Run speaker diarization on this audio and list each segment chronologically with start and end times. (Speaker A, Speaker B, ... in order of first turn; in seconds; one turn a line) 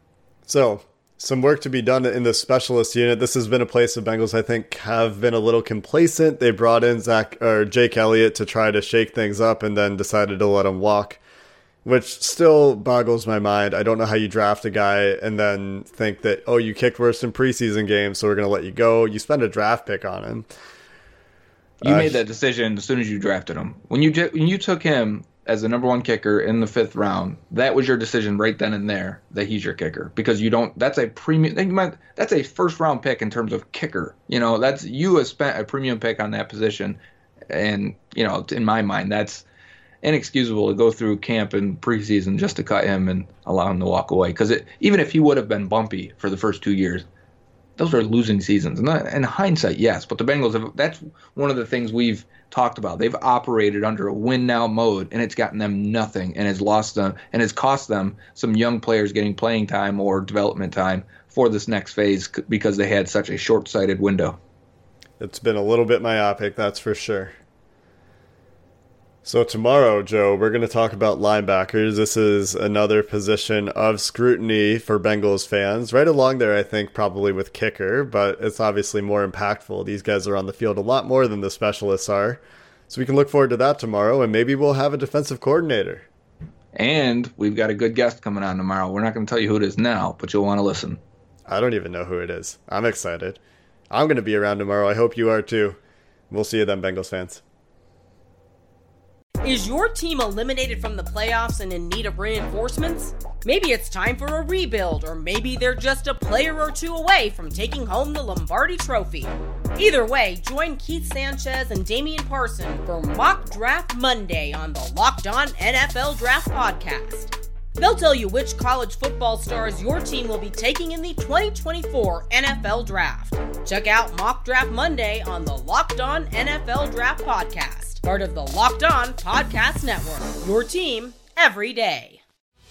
Speaker A: 0.5-11.2
Speaker A: 11.8-20.5
Speaker A: 21.8-22.2
Speaker B: 21.8-37.0
Speaker B: 37.5-39.5
Speaker B: 40.0-47.1
Speaker B: 47.8-64.4
Speaker A: 65.2-67.4
Speaker A: 69.2-86.1
Speaker B: 86.8-91.0
Speaker A: 91.5-95.8
Speaker A: 96.3-97.4
Speaker C: 99.4-132.2